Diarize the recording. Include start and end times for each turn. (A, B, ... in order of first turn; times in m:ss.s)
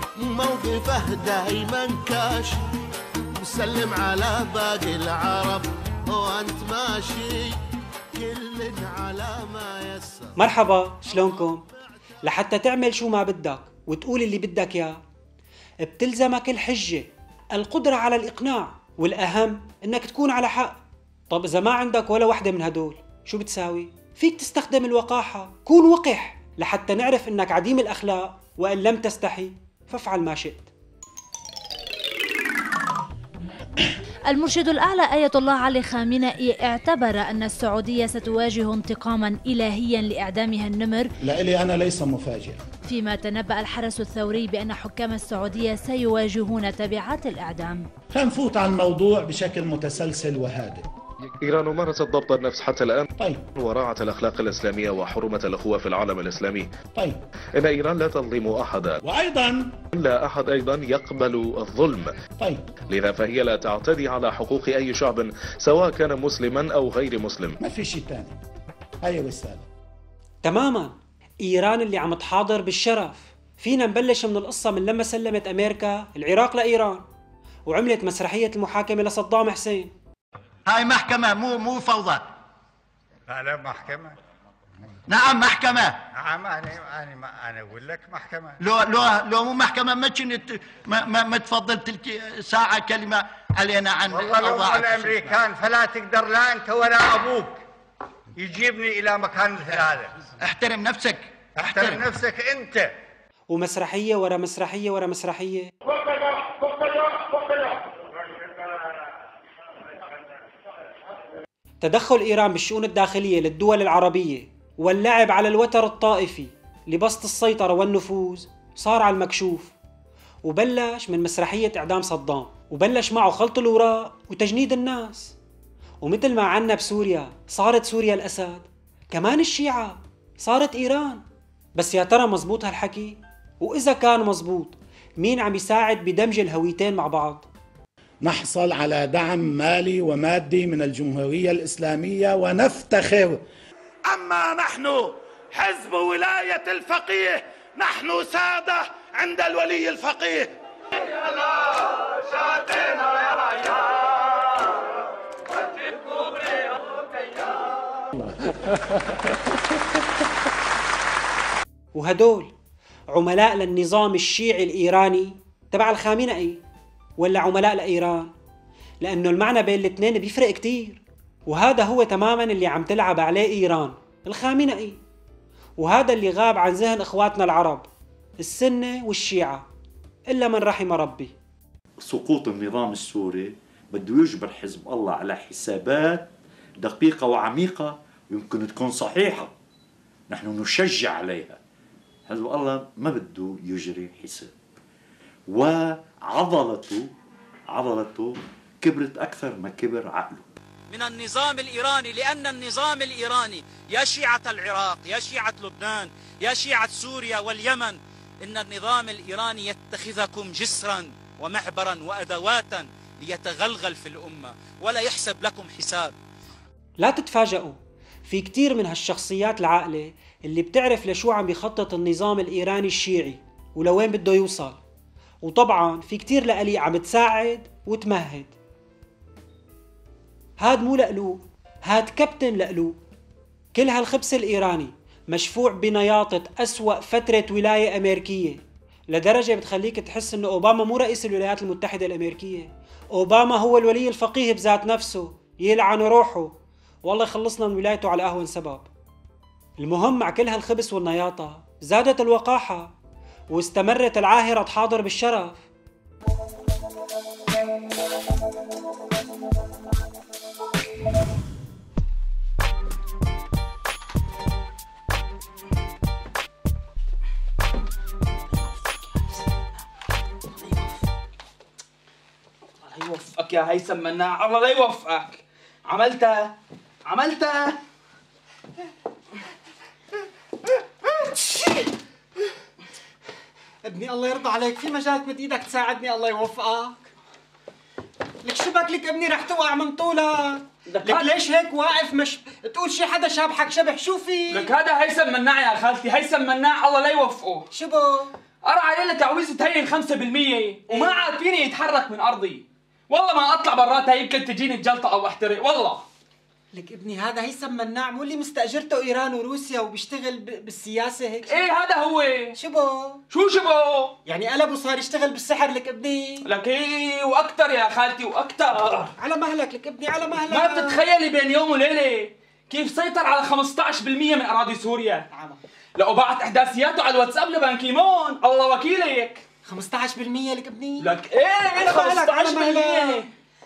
0:00.2-0:02.6 A
0:03.3-0:07.6 A
0:08.1-0:10.4 A
0:10.4-0:11.6 B
0:12.2-0:15.0 B
0:15.8-0:30.7 B
0:34.3-0:41.1 C
0:41.2-0:42.6 D
0:42.8-0:47.9 C
0:48.1-0:50.8 D
0:51.4-0:56.7 E
0:53.2-0:53.4 D
0:57.6-0:59.0 E
0:59.0-0:59.7 D
1:00.0-1:02.1 E
1:02.9-1:07.6 E
1:07.6-1:08.4 D
1:09.0-1:09.6 D
1:10.4-1:17.0 B
1:17.7-1:19.9 B
1:20.6-1:22.2 F
1:23.3-1:24.2 G
1:25.1-1:26.0 F
1:26.1-1:28.6 G
1:28.6-1:35.3 F
1:34.1-1:37.6 G
1:38.4-1:40.1 G
1:40.4-1:42.0 F
1:41.6-1:42.9 G
1:43.5-1:45.7 B
1:51.8-1:59.7 B
2:00.4-2:05.4 B
2:06.0-2:11.2 B
2:11.8-2:17.5 B
2:18.2-2:23.4 D
2:24.1-2:30.5 D
2:32.5-2:32.9 D
2:38.2-2:39.0 D
2:41.9-2:42.5 B
2:43.1-2:46.6 B
2:47.2-2:48.3 B
2:49.0-2:55.0 B
2:55.8-2:57.8 B
2:58.4-2:59.7 B
3:00.3-3:01.3 B
3:02.0-3:06.3 H
3:06.8-3:09.5 H
3:10.3-3:11.6 H
3:12.3-3:14.5 H
3:15.5-3:17.1 H
3:17.7-3:20.5 H
3:20.9-3:36.1 I
3:37.0-3:44.8 B
3:45.4-3:48.5 B
3:50.6-3:53.0 B
3:53.7-4:06.5 B
4:07.0-4:08.9 B
4:09.8-4:12.9 B
4:13.5-4:15.6 B
4:28.5-4:29.2 J
4:30.6-4:31.0 J
4:32.8-4:37.8 J
4:43.8-4:47.0 K
4:48.4-4:54.7 K
4:50.9-4:51.4 J
4:54.5-4:57.7 J
4:57.7-4:58.3 K
4:58.6-5:06.0 J
5:00.9-5:01.2 K
5:06.7-5:11.6 K
5:11.4-5:12.6 J
5:12.6-5:13.2 K
5:13.3-5:14.2 J
5:14.2-5:16.4 K
5:16.4-5:19.1 J
5:19.2-5:21.0 K
5:20.3-5:25.2 J
5:26.0-5:29.4 J
5:29.6-5:31.1 K
5:31.0-5:33.3 J
5:31.7-5:33.2 K